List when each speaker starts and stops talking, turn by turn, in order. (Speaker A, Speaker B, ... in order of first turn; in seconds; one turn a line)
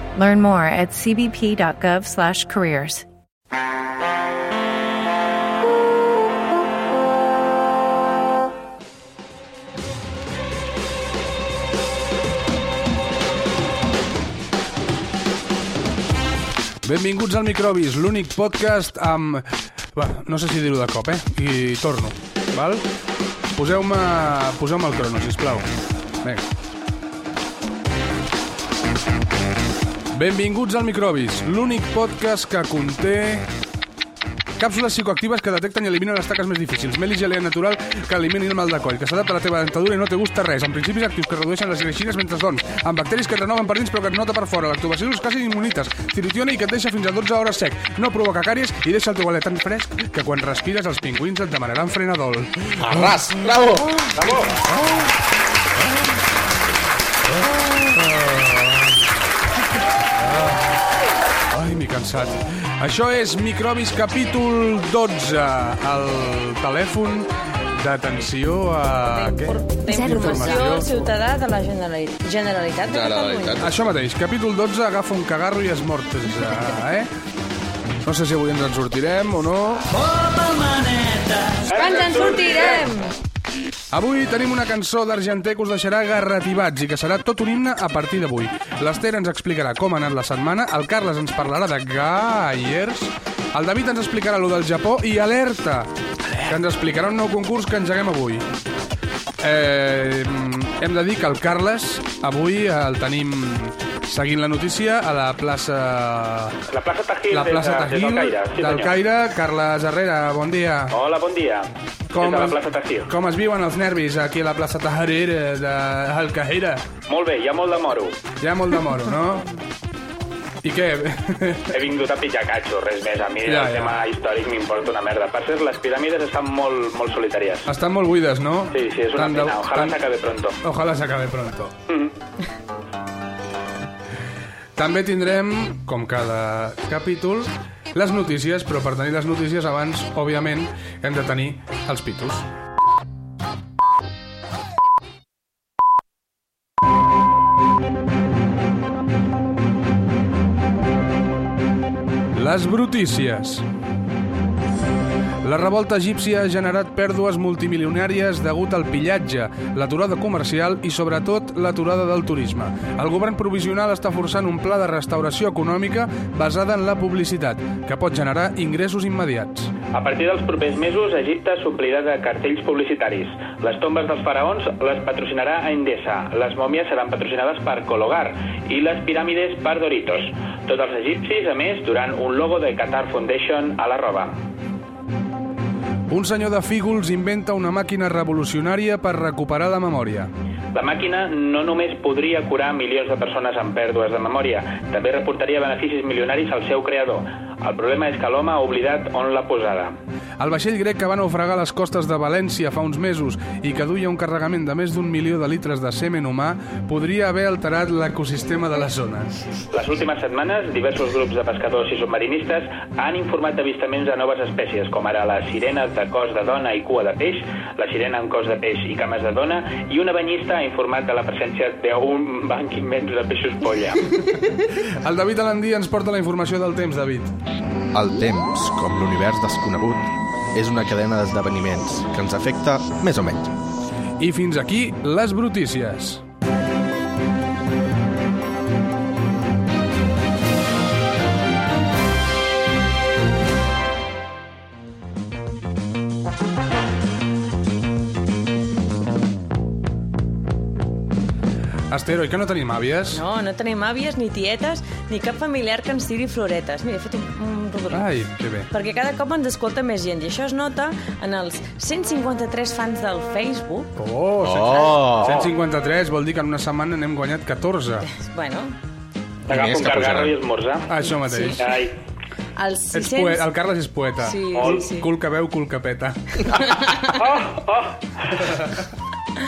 Speaker A: 0.1-3.1
Speaker B: 16.8-22.8
Speaker B: 23.5-25.7
Speaker B: 30.1-33.5
Speaker B: 34.6-53.2
Speaker C: 52.8-54.0
Speaker D: 54.2-54.6
Speaker B: 54.7-55.1
Speaker B: 57.4-59.0
Speaker B: 60.1-60.6
Speaker B: 61.5-71.1
Speaker E: 69.0-73.7
Speaker C: 72.9-73.8
Speaker B: 73.6-77.1
Speaker B: 78.0-79.9
Speaker D: 81.7-82.8
Speaker E: 81.8-83.1
Speaker B: 83.9-95.9
Speaker B: 96.5-98.5
Speaker B: 99.4-106.6
Speaker D: 106.7-108.9
Speaker B: 107.3-110.9
Speaker D: 110.9-113.1
Speaker B: 112.1-116.9
Speaker D: 117.1-118.2
Speaker B: 118.4-119.6
Speaker B: 120.6-121.7
Speaker D: 121.7-127.7
Speaker B: 123.5-124.0
Speaker B: 127.7-130.0
Speaker D: 128.7-130.6
Speaker B: 130.6-131.7
Speaker B: 134.8-142.4
Speaker B: 152.3-153.6
Speaker B: 155.4-169.7
Speaker D: 169.9-184.4
Speaker B: 186.1-190.3
Speaker D: 190.7-200.0
Speaker B: 200.4-209.3
Speaker D: 209.7-224.1
Speaker B: 224.8-227.3
Speaker C: 227.9-233.5
Speaker B: 234.2-236.2
Speaker B: 251.9-253.2
Speaker E: 253.1-258.1
Speaker B: 257.9-258.7
Speaker E: 258.7-263.9
Speaker B: 264.0-268.1
Speaker C: 264.4-265.5
Speaker D: 265.2-265.5
Speaker E: 268.0-268.8
Speaker C: 269.5-270.4
Speaker D: 269.5-270.9
Speaker B: 270.9-271.6
Speaker E: 271.0-271.6
Speaker D: 271.6-271.9
Speaker E: 272.6-273.5
Speaker B: 272.9-276.8
Speaker E: 274.2-275.1
Speaker E: 276.5-277.1
Speaker D: 277.1-278.4
Speaker B: 278.4-278.8